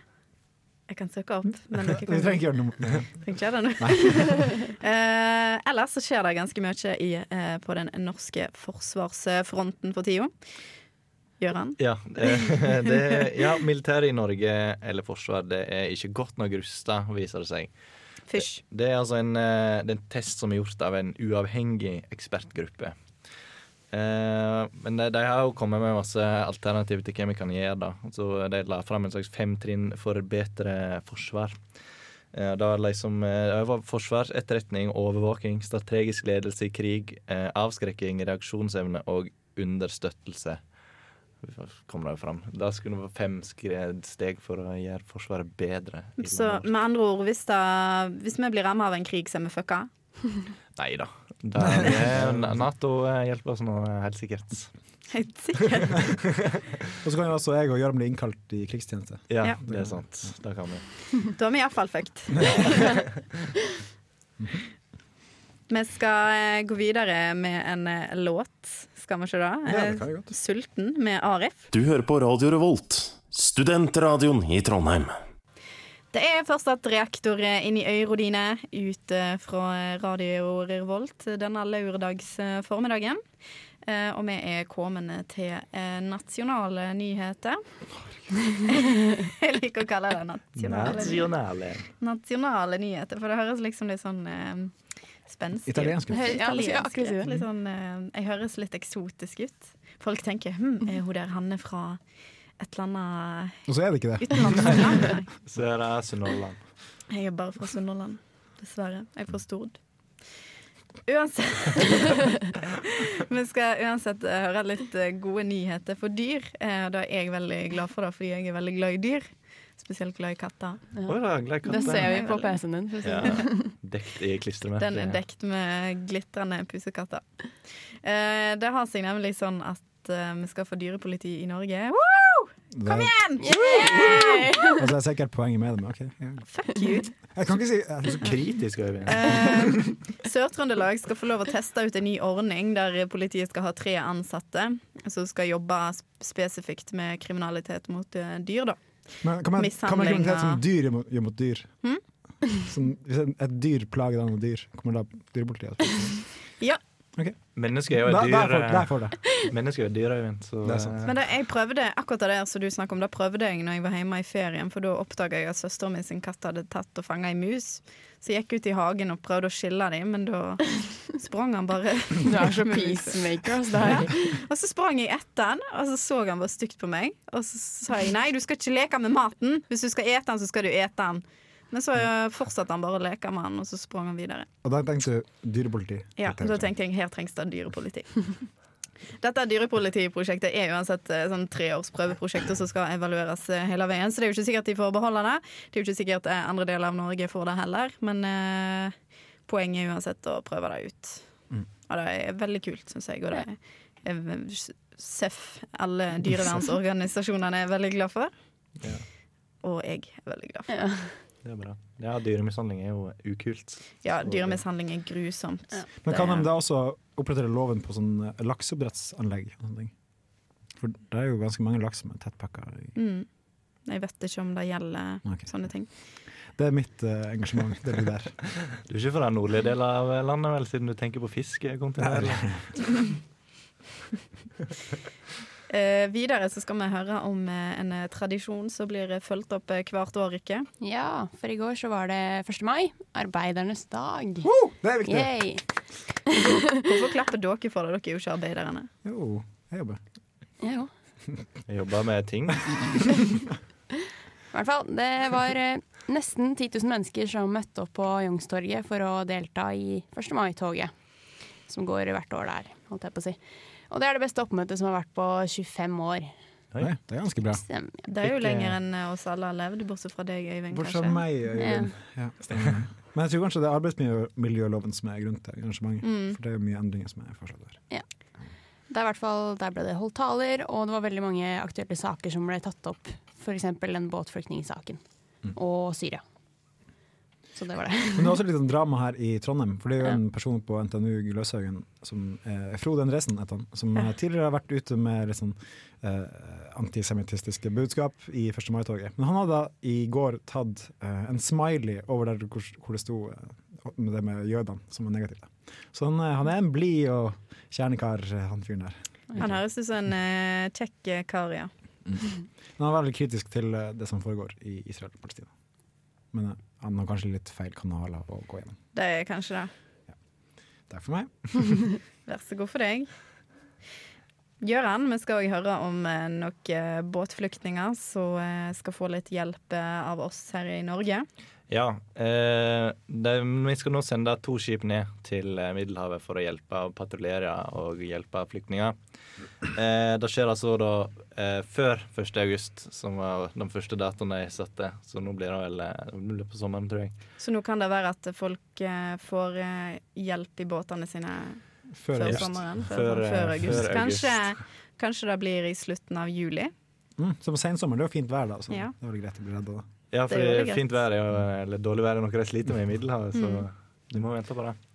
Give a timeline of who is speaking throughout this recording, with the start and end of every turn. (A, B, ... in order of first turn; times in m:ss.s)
0:00.9-0:02.5 A
0:01.9-0:03.1 B
0:03.2-0:10.3 A
0:03.8-0:04.4 B
0:11.4-0:12.9 A
0:11.8-0:17.7 C
0:18.3-0:18.6 A
0:18.4-0:23.0 C
0:23.9-0:31.6 C
0:32.3-0:40.6 C
0:41.4-0:46.7 C
0:46.2-0:49.9 A
0:50.8-0:54.7 C
0:51.6-0:52.6 B
0:55.1-0:56.2 A
0:57.0-1:00.0 B
0:59.3-1:00.8 C
1:01.2-1:03.0 A
1:04.4-1:04.6 B
1:05.7-1:11.7 A
1:09.7-1:10.3 B
1:11.7-1:15.2 D
1:16.1-1:23.2 A
1:23.8-1:27.6 A
1:28.6-1:31.3 A
1:30.6-1:31.9 C
1:32.0-1:34.7 A
1:35.3-1:42.0 A
1:35.7-1:36.4 B
1:36.1-1:37.2 E
1:42.6-1:43.7 A
1:43.7-1:45.1 B
1:44.2-1:45.3 A
1:45.5-1:46.6 C
1:47.1-1:49.8 A
1:51.1-2:00.9 A
2:01.0-2:03.7 E
2:01.1-2:02.1 C
2:01.7-2:02.6 A
2:03.0-2:05.2 C
2:04.8-2:07.2 A
2:08.0-2:14.7 A
2:12.7-2:14.2 B
2:13.4-2:14.9 E
2:14.7-2:16.4 B
2:16.5-2:17.2 A
2:17.3-2:18.4 B
2:18.2-2:19.4 C
2:19.1-2:28.8 A
2:29.2-2:31.7 B
2:29.6-2:30.6 A
2:32.6-2:36.2 B
2:37.6-2:41.1 C
2:37.9-2:39.2 B
2:40.6-2:41.0 B
2:41.1-2:53.2 A
2:52.2-2:54.4 E
2:53.8-3:04.5 A
3:04.6-3:06.7 B
3:06.2-3:08.4 A
3:09.2-3:18.9 A
3:19.5-3:21.2 A
3:21.9-3:28.3 A
3:29.6-3:30.8 A
3:30.7-3:31.2 E
3:31.4-3:34.6 C
3:34.0-3:36.5 A
3:36.0-3:39.9 B
3:40.8-3:43.0 B
3:43.0-3:43.3 A
3:43.8-3:45.9 A
3:45.2-3:45.5 B
3:46.6-3:48.4 B
3:48.9-3:52.6 C
3:52.0-3:52.6 B
3:55.7-4:00.7 A
4:00.8-4:04.5 E
4:04.4-4:05.4 B
4:05.0-4:05.6 E
4:06.3-4:06.7 E
4:06.6-4:08.9 A
4:09.0-4:10.0 B
4:10.6-4:10.9 E
4:11.7-4:13.0 C
4:14.5-4:20.9 E
4:21.7-4:23.4 E
4:23.9-4:26.3 E
4:26.8-4:27.6 B
4:27.5-4:28.1 E
4:28.1-4:31.2 A
4:28.2-4:28.7 C
4:30.7-4:37.8 B
4:31.6-4:31.9 E
4:36.0-4:36.4 A
4:38.9-4:45.0 E
4:45.6-4:46.2 E
4:47.6-4:48.4 E
4:48.2-5:09.6 B
5:09.4-5:11.7 A
5:12.8-5:15.5 B
5:16.3-5:18.8 B
5:18.9-5:19.7 A
5:20.9-5:21.8 B
5:22.3-5:23.1 A
5:24.6-5:31.3 A
5:31.7-5:39.0 C
5:39.7-5:47.1 C
5:47.4-5:51.6 A
5:51.9-5:52.7 B
5:52.1-5:56.7 A
5:52.2-5:54.5 C
5:57.2-5:59.8 B
6:00.1-6:04.8 C
6:00.3-6:00.8 A
6:03.4-6:03.6 A